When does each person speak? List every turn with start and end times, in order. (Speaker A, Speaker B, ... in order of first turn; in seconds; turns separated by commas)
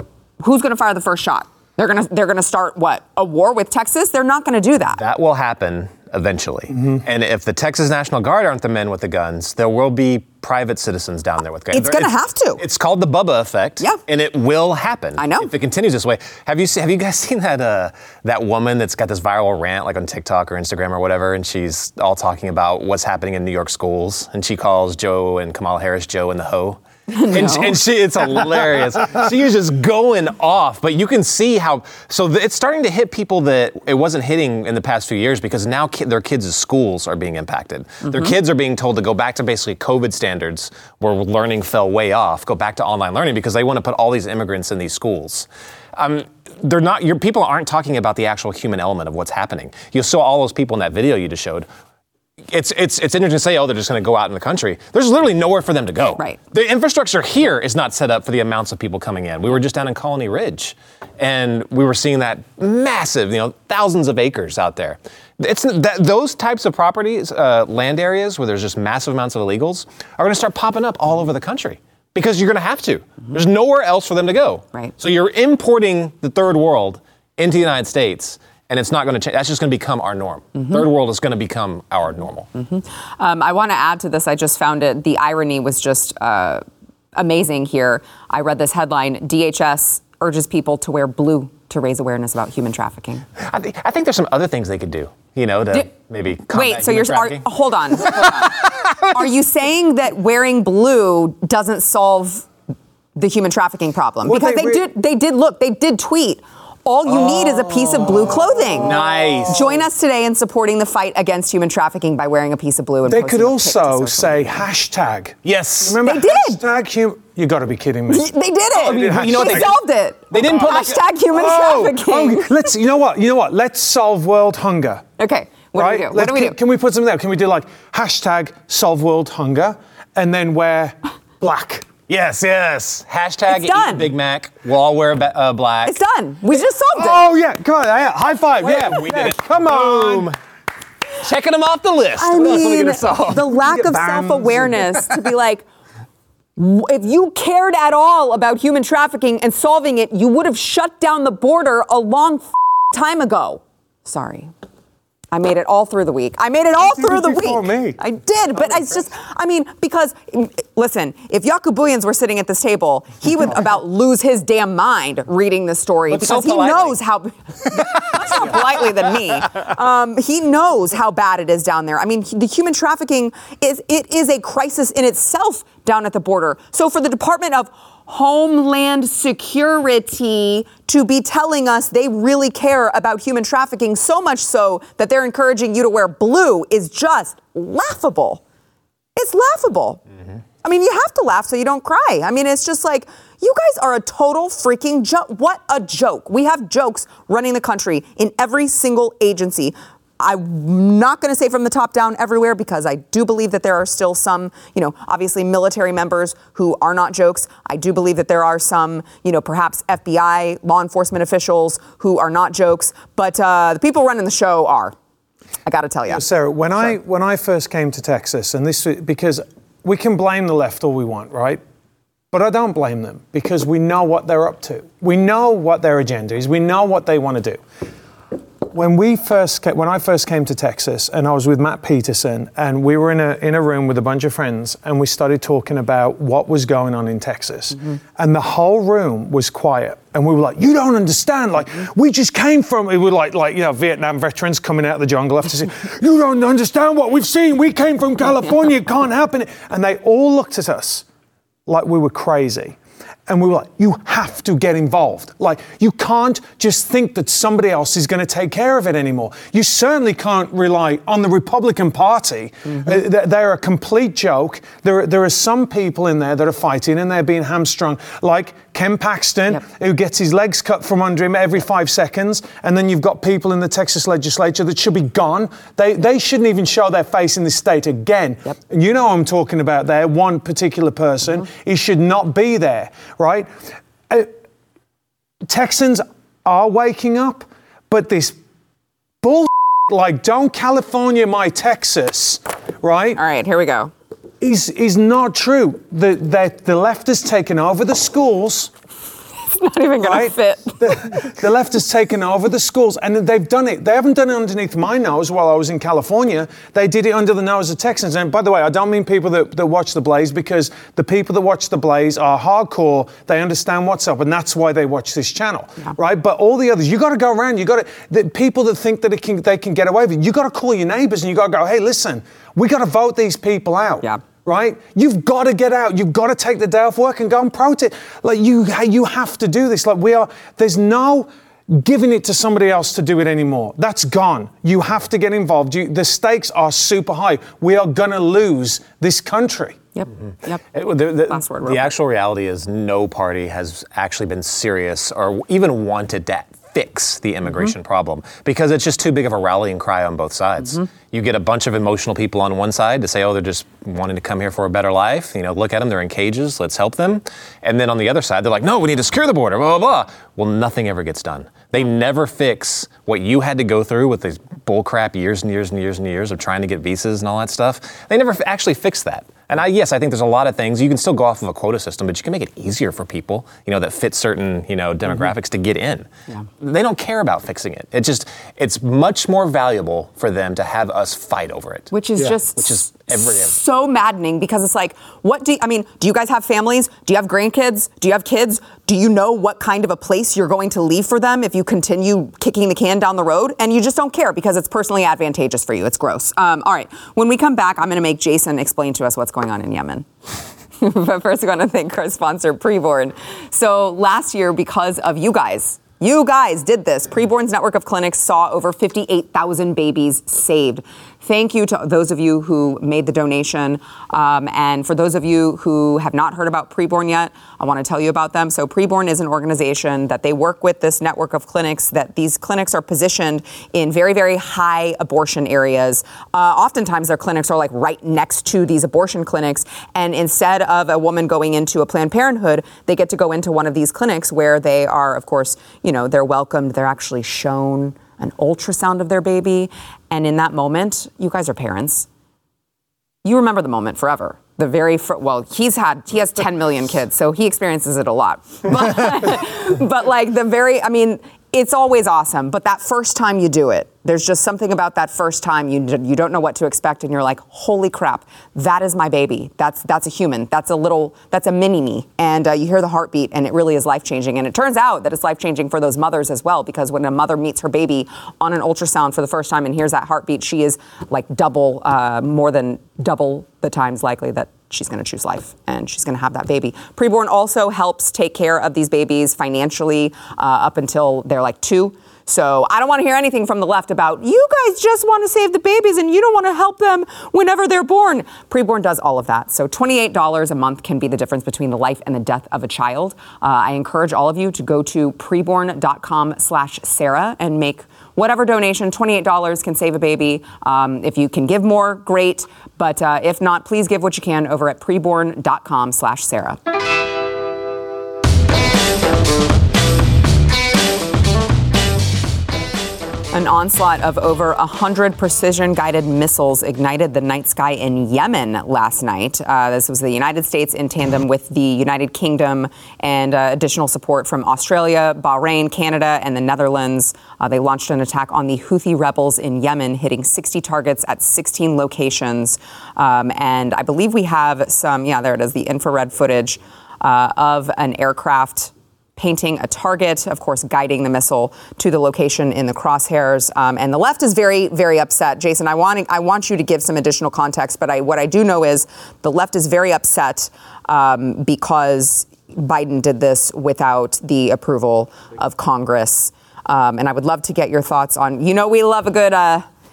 Speaker A: 0.4-5.0, Speaker B: 5.0-51.7, Speaker A: 11.7-12.6, Speaker A: 15.2-15.5, Speaker A: 27.1-27.8, Speaker A: 38.1-38.3, Speaker B: 52.5-82.5, Speaker A: 82.6-86.6, Speaker A: 87.2-93.3, Speaker B: 93.4-99.1, Speaker A: 96.5-102.5, Speaker A: 103.2-114.3, Speaker C: 104.2-104.8, Speaker B: 107.1-109.7, Speaker C: 113.1-119.7, Speaker B: 115.5-116.0, Speaker A: 116.0-116.6, Speaker A: 118.1-122.5, Speaker B: 118.8-119.8, Speaker B: 120.3-121.0, Speaker C: 121.3-125.0, Speaker A: 125.2-126.6, Speaker C: 125.8-131.9, Speaker B: 132.1-136.0, Speaker A: 133.5-134.1, Speaker A: 135.8-137.3, Speaker C: 137.0-140.3, Speaker B: 138.6-140.4, Speaker B: 141.2-143.6, Speaker A: 142.2-145.6, Speaker C: 143.6-144.9, Speaker A: 146.6-154.5, Speaker A: 155.3-188.4, Speaker C: 156.8-158.0, Speaker B: 166.1-167.0, Speaker B: 167.7-168.8, Speaker A: 189.2-190.0, Speaker A: 190.6-214.9, Speaker A: 215.7-216.2, Speaker C: 216.1-221.6, Speaker C: 222.3-227.6, Speaker C: 228.7-251.1, Speaker C: 251.7-283.5, Speaker C: 285.5-288.4, Speaker C: 289.2-293.2, Speaker A: 293.1-293.9, Speaker C: 294.4-298.7, Speaker A: 299.5-301.2, Speaker C: 300.0-339.8, Speaker A: 340.0-340.6, Speaker C: 340.7-341.3, Speaker A: 341.3-341.9, Speaker B: 341.6-376.1, Speaker B: 376.6-383.6, Speaker A: 381.9-400.1, Speaker A: 400.8-442.1, Speaker A: 443.2-506.6, Speaker A: 513.3-559.7